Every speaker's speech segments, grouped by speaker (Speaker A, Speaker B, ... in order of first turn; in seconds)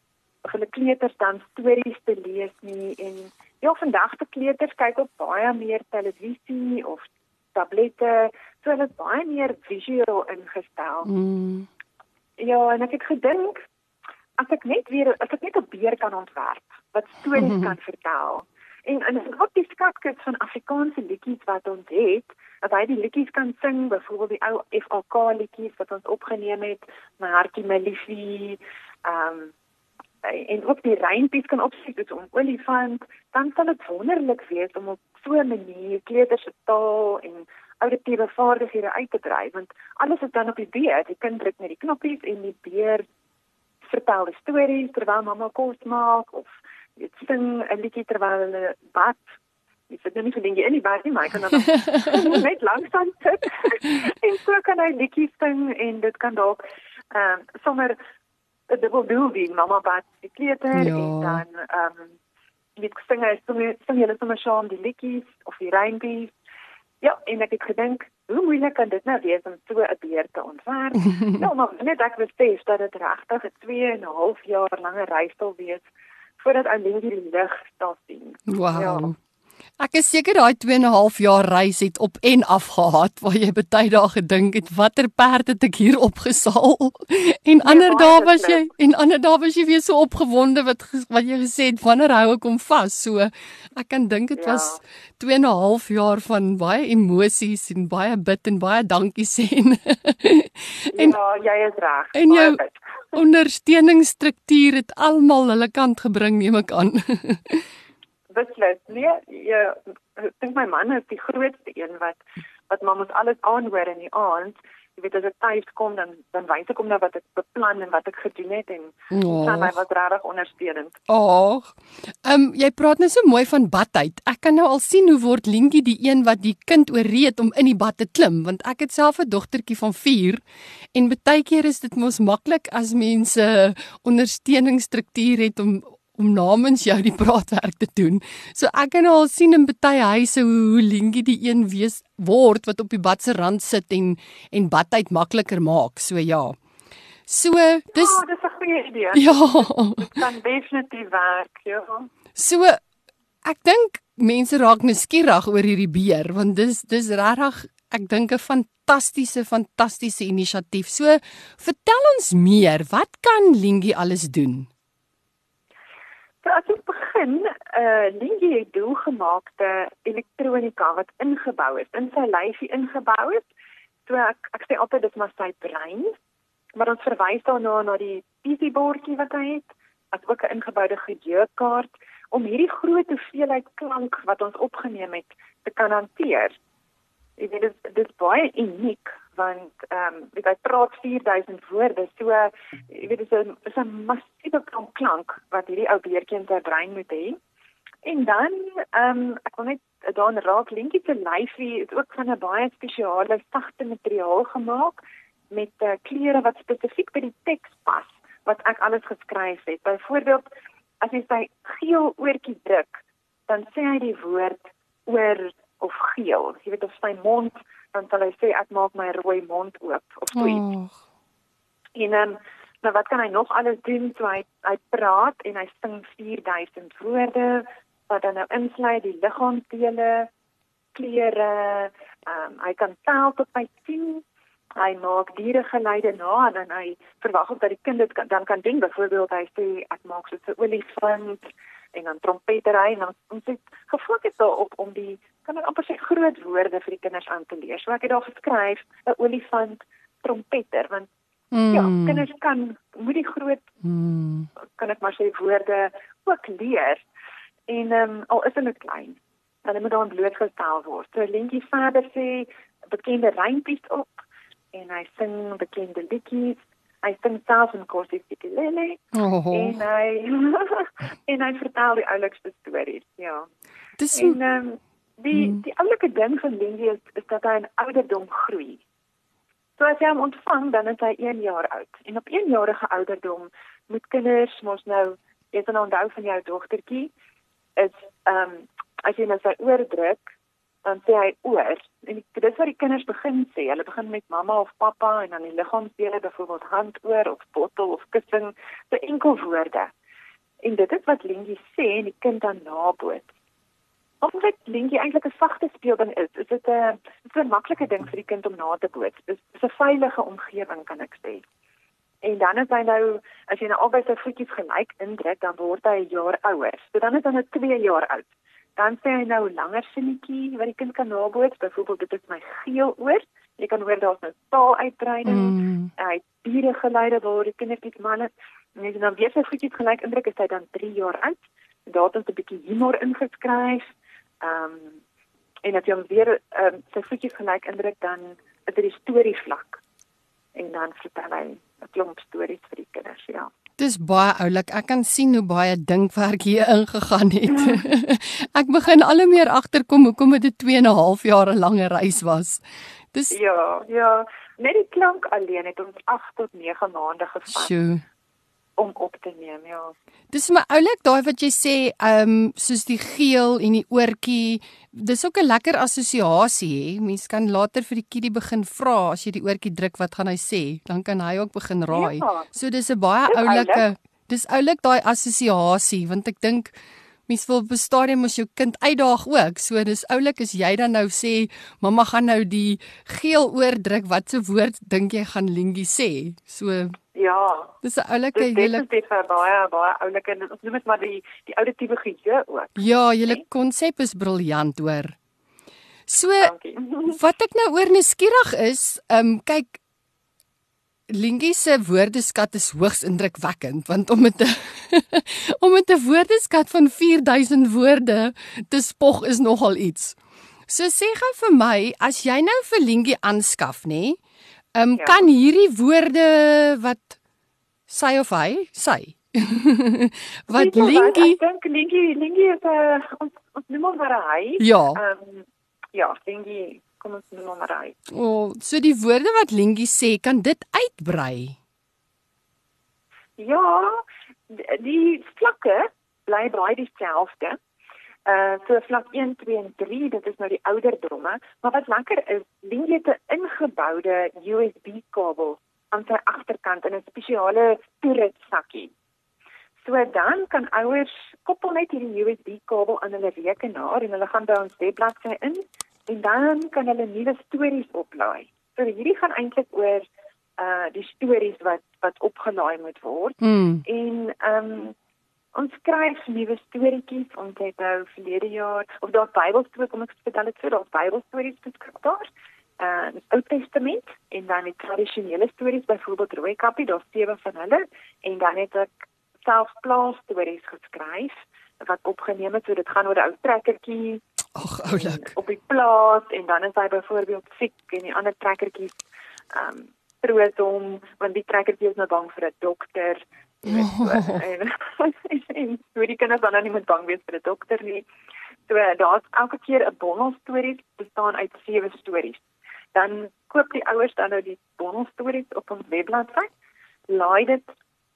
Speaker A: 0.4-11.1, 12.4-13.7, 14.4-29.5, 30.2-43.0, 43.9-49.2, 49.9-58.0, 58.7-62.2, 62.8-66.3, 67.0-75.9, 76.4-79.1, 87.6-88.7, 94.4-94.8, 100.9-102.8, 108.3-121.0, 147.9-152.1, 166.4-173.5, 174.1-176.1, 176.8-186.5, 187.4-197.4, 198.0-205.0, 205.5-210.4, 211.0-220.7, 221.9-230.3, 230.9-234.2, 234.8-251.1, 251.7-253.7, 254.6-257.0, 257.7-273.5, 274.1-278.8, 279.8-287.1, 287.8-290.2, 290.8-299.9, 300.6-303.3, 304.2-311.4, 312.2-333.9, 334.4-335.0, 335.6-339.8, 340.6-343.5, 353.3-357.7, 358.8-359.9, 371.9-372.5, 373.3-373.9, 387.1-387.7, 388.3-393.4, 396.4-397.2, 415.0-415.3, 420.5-428.0, 433.4-437.6, 438.3-448.9, 449.8-460.1, 460.6-464.9, 465.6-472.3, 472.8-478.9, 479.4-484.2, 484.9-489.0, 489.5-498.1, 498.7-506.5, 507.1-507.7
Speaker B: 11.1-11.7, 17.4-17.7, 51.7-52.4, 60.8-61.4, 71.0-71.5, 78.5-79.2, 79.8-101.2, 102.1-102.6, 103.1-107.7, 119.1-119.8, 121.1-130.4, 130.9-146.6, 147.3-148.2, 149.1-150.2, 152.4-152.8, 153.4-164.7, 220.3-221.0, 251.5-252.2, 253.8-254.5, 269.1-269.8, 274.0-274.4, 275.3-275.6, 325.2-325.9, 343.8-353.4, 357.5-358.0, 360.3-376.7, 377.3-387.0, 387.8-388.9, 392.8-395.2, 396.1-396.5, 397.1-399.8, 401.1-410.2, 410.7-414.2, 414.8-417.2, 417.9-421.4, 424.6-425.0, 428.1-431.6, 463.4-463.8, 484.6-485.3, 493.7-494.4